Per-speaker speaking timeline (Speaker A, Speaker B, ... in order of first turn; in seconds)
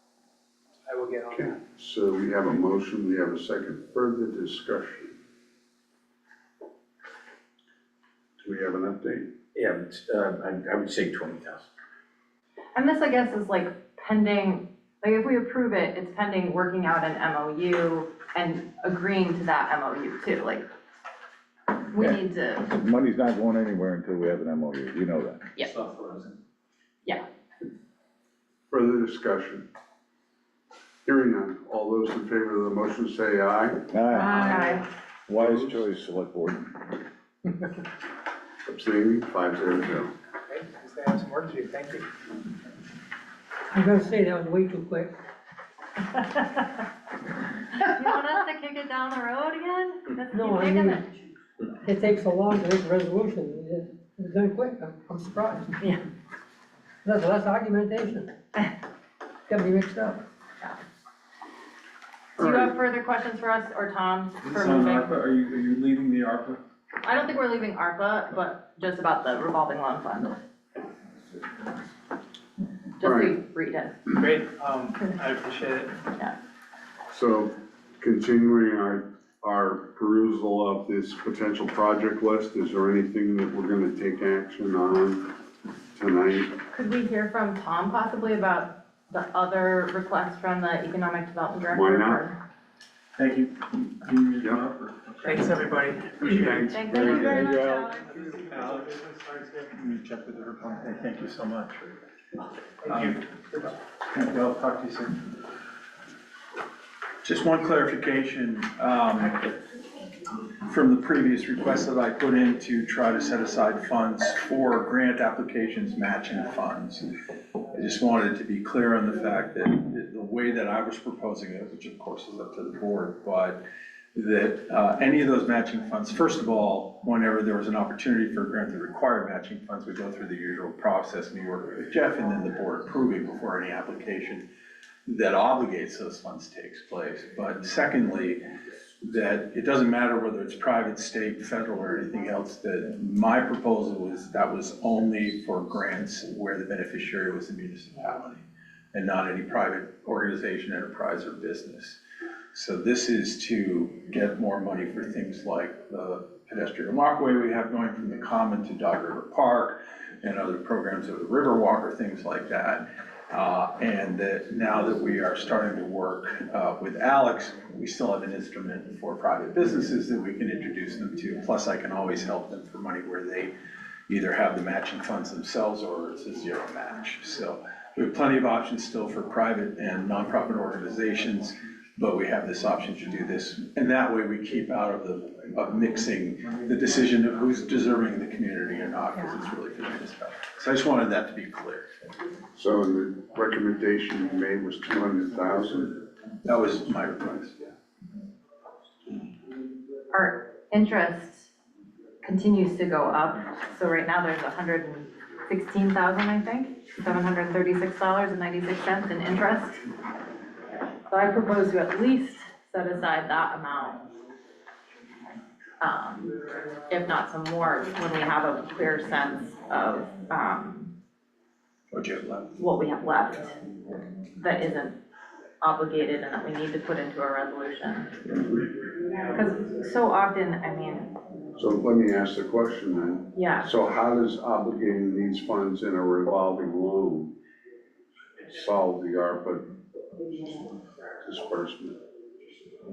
Speaker A: 1.3-5.2, 8.4-9.3, 28.7-29.7, 31.1-33.8, 35.4-35.8, 38.7-40.1, 62.4-62.7, 73.0-73.3, 77.1-85.3, 86.0-86.5, 91.7-92.2, 96.2-97.5, 192.5-196.0, 231.6-237.3, 238.4-239.7, 241.2-242.0
Speaker B: 9.6-11.6
Speaker C: 12.8-20.6, 21.9-22.7, 34.1-34.9, 47.7-51.2, 62.4-65.2, 67.0-70.4, 73.0-74.0, 86.7-92.4, 96.7-98.2, 200.1-201.5, 202.2-209.8, 211.1-214.1, 215.8-220.9, 222.6-223.6, 224.3-225.0, 225.6-228.1, 229.3-231.2, 233.3-233.7
Speaker D: 22.0-25.4, 33.9-36.9, 96.9-98.0
Speaker E: 40.5-42.1, 74.2-76.0, 95.3-96.7, 98.1-99.7
Speaker F: 43.7-45.1, 50.3-51.0, 51.8-55.9, 57.0-58.3, 59.5-60.2
Speaker G: 64.4-66.6, 93.2-95.7, 98.4-102.0, 102.8-103.2, 104.1-105.2, 107.2-109.6, 110.6-117.1, 117.7-123.6, 124.2-134.4, 135.1-138.4, 139.0-152.0, 152.5-173.5, 174.1-191.9, 196.4-197.6, 221.9-222.5